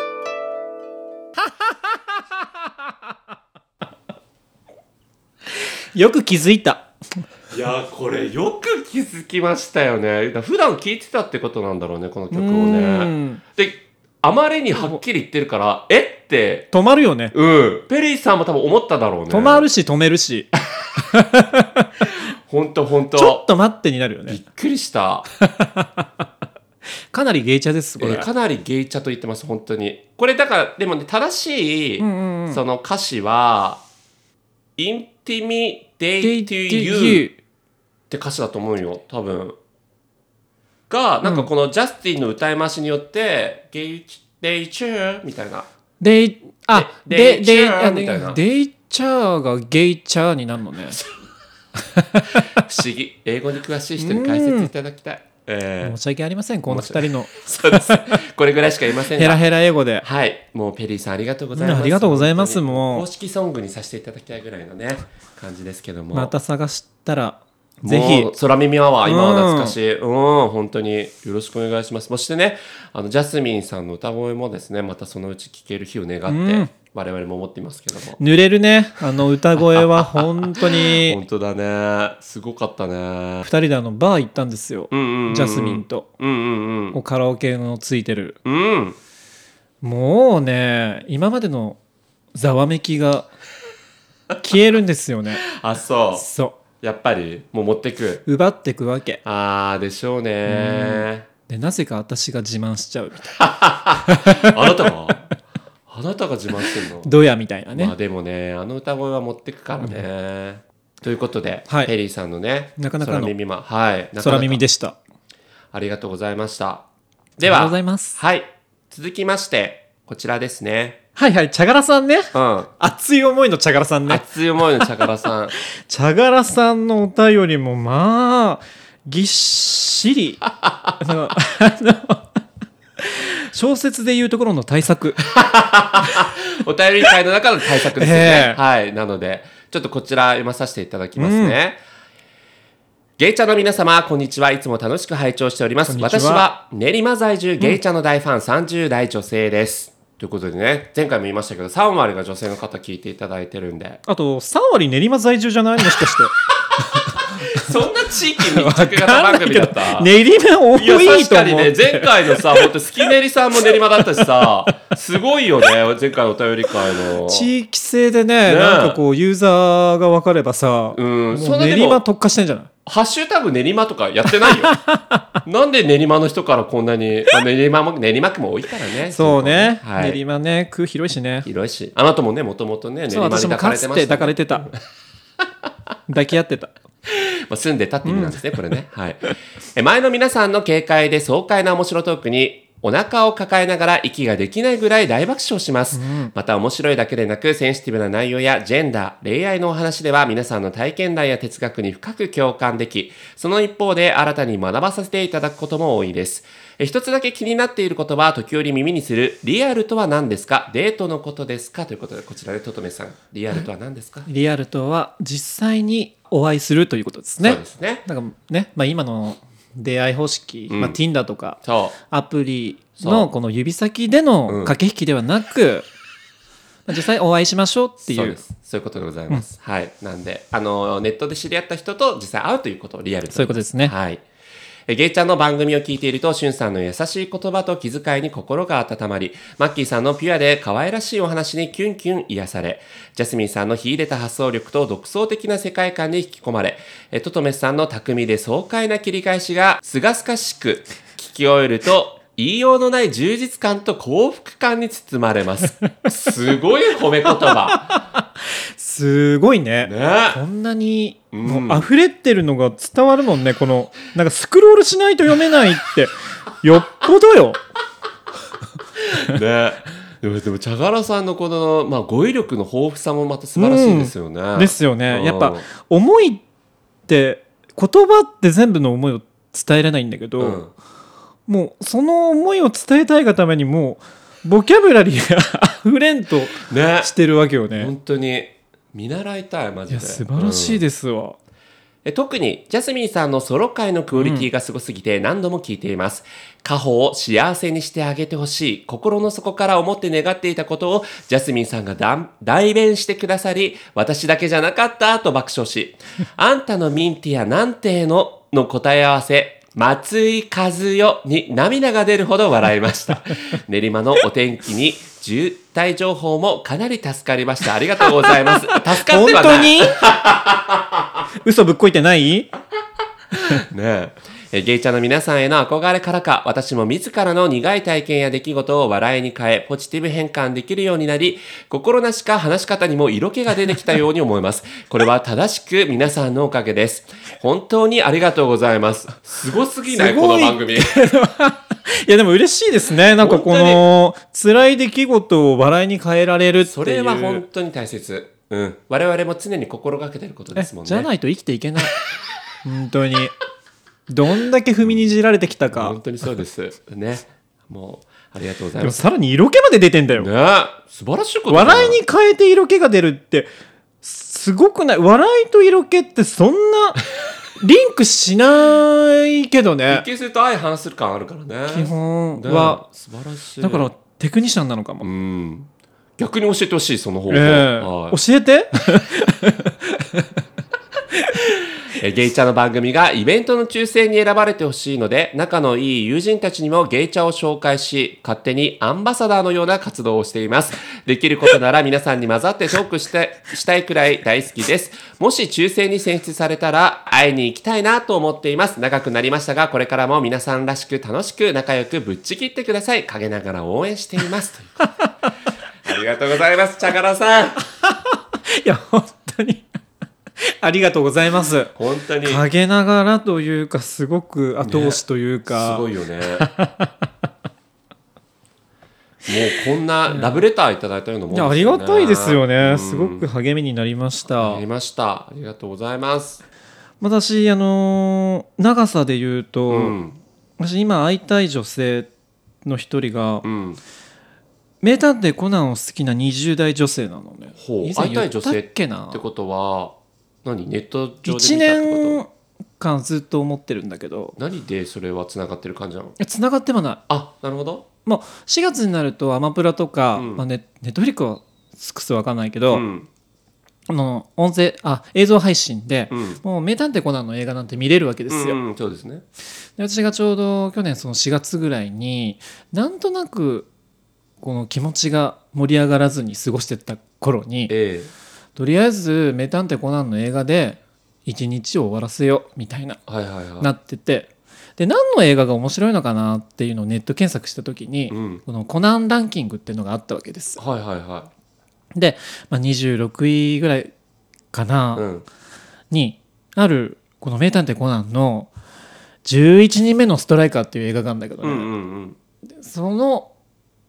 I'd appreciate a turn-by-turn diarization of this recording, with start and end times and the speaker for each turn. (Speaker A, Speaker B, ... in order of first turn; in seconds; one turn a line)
Speaker A: 5.9-6.9
Speaker B: 7.5-16.7
Speaker A: 12.3-13.4
Speaker A: 16.7-17.3
Speaker B: 17.3-19.7
Speaker A: 19.3-21.9
Speaker B: 22.1-23.5
Speaker A: 23.1-24.4
Speaker B: 24.3-25.3
Speaker A: 25.4-26.2
Speaker A: 27.1-28.3
Speaker B: 28.0-33.8
Speaker A: 32.0-32.6
Speaker B: 34.8-37.3
Speaker A: 36.2-37.4
Speaker B: 38.1-39.5
Speaker B: 40.9-45.7
Speaker A: 41.2-41.5
Speaker A: 46.0-51.0
Speaker B: 46.7-48.4
Speaker A: 51.9-52.2
Speaker B: 52.5-56.0
Speaker A: 54.0-54.7
Speaker A: 55.8-58.1
Speaker B: 56.7-59.5
Speaker A: 59.1-60.0
Speaker B: 60.0-66.3
Speaker A: 61.5-63.0
Speaker A: 66.1-68.3
Speaker B: 67.8-78.2
Speaker A: 69.0-69.8
Speaker A: 76.3-76.7
Speaker A: 78.2-81.2
Speaker B: 79.7-83.5
Speaker A: 83.4-86.1
Speaker B: 84.9-87.0
Speaker A: 86.9-88.4
Speaker B: 88.4-89.0
Speaker A: 89.8-91.8
Speaker A: 92.3-93.3
Speaker A: 94.4-95.4
Speaker B: 95.5-96.3
Speaker A: 96.2-96.5
Speaker B: 96.8-98.2
Speaker A: 98.2-99.2
Speaker B: 99.2-101.2
Speaker A: 100.5-103.3
Speaker B: 103.3-105.3
Speaker A: 104.0-104.9
Speaker B: 105.9-107.1
Speaker A: 107.0-107.9
Speaker B: 107.7-114.6
Speaker A: 112.8-113.3
Speaker A: 114.2-115.0
Speaker B: 115.7-116.8
Speaker B: 117.4-121.0
Speaker A: 117.4-118.2
Speaker A: 121.2-124.2
Speaker B: 122.3-122.7
Speaker B: 124.1-125.5
Speaker A: 125.7-130.4
Speaker B: 130.6-130.9
Speaker A: 131.0-132.4
Speaker A: 133.0-135.2
Speaker B: 135.2-141.8
Speaker A: 137.9-138.6
Speaker A: 141.2-141.6
Speaker B: 143.2-154.0
Speaker A: 145.9-146.5
Speaker A: 154.1-156.3
Speaker B: 157.1-160.1
Speaker A: 158.4-162.7
Speaker B: 160.7-167.5
Speaker A: 164.4-164.7
Speaker A: 167.2-172.7
Speaker B: 168.4-169.0
Speaker B: 170.9-172.0
Speaker B: 172.8-174.7
Speaker A: 174.4-175.3
Speaker B: 175.4-180.2
Speaker A: 179.1-181.5
Speaker B: 181.4-184.8
Speaker A: 183.1-184.7
Speaker A: 186.1-186.7
Speaker B: 187.1-214.3
Speaker A: 188.0-188.4
Speaker A: 195.9-196.3
Speaker A: 214.3-225.9
Speaker B: 217.4-218.0
Speaker B: 220.7-221.0
Speaker B: 221.6-222.0
Speaker B: 223.0-223.3
Speaker B: 224.5-224.8
Speaker A: 226.9-228.4
Speaker B: 228.0-234.2
Speaker A: 233.3-233.9
Speaker B: 234.9-258.0
Speaker A: 257.3-267.6
Speaker B: 259.8-260.4
Speaker B: 261.3-261.9
Speaker B: 269.0-275.7
Speaker A: 273.6-276.4
Speaker A: 277.1-280.6
Speaker B: 280.4-280.7
Speaker A: 281.5-287.9
Speaker B: 286.6-287.1
Speaker B: 287.7-290.8
Speaker A: 289.9-291.4
Speaker B: 292.0-321.0
Speaker A: 294.1-294.5
Speaker A: 318.7-320.0
Speaker A: 321.4-322.5
Speaker B: 323.4-341.0
Speaker A: 339.9-347.4
Speaker B: 343.2-343.8
Speaker B: 346.6-351.1
Speaker A: 350.6-351.9
Speaker A: 352.6-353.3
Speaker A: 354.1-356.0
Speaker B: 355.7-359.0
Speaker A: 358.8-360.3
Speaker B: 360.1-362.0
Speaker A: 361.5-363.5
Speaker A: 364.0-367.0
Speaker A: 367.6-370.0
Speaker B: 369.9-373.9
Speaker A: 371.7-372.8
Speaker A: 373.6-375.1
Speaker B: 375.0-378.2
Speaker A: 377.3-380.3
Speaker B: 381.9-404.9
Speaker B: 405.8-407.6
Speaker A: 407.8-409.6
Speaker A: 410.4-411.7
Speaker B: 411.7-412.4
Speaker A: 412.2-415.8
Speaker B: 414.6-416.5
Speaker A: 416.4-417.0
Speaker B: 419.2-423.2
Speaker A: 420.1-420.4
Speaker A: 421.3-424.6
Speaker B: 424.3-426.4
Speaker A: 427.0-429.9
Speaker B: 429.7-430.2
Speaker A: 430.6-432.1
Speaker A: 432.6-433.4
Speaker B: 433.4-433.8
Speaker A: 434.8-439.2
Speaker B: 437.6-442.2
Speaker A: 441.2-444.4
Speaker B: 444.4-446.2
Speaker A: 446.2-447.0
Speaker B: 447.1-447.9
Speaker A: 448.1-452.8
Speaker B: 450.1-450.4
Speaker B: 452.7-453.1
Speaker A: 453.9-458.6
Speaker B: 456.1-456.4
Speaker B: 458.3-459.2
Speaker A: 459.8-463.7
Speaker A: 464.4-467.7
Speaker B: 467.7-468.1
Speaker A: 468.6-473.0
Speaker B: 473.1-473.7
Speaker A: 473.6-480.6
Speaker B: 478.1-478.4
Speaker B: 480.6-481.3
Speaker A: 481.9-483.9
Speaker A: 484.5-485.0
Speaker B: 484.9-485.2
Speaker A: 485.9-488.5
Speaker A: 489.2-491.7
Speaker B: 491.4-492.1
Speaker A: 492.6-493.3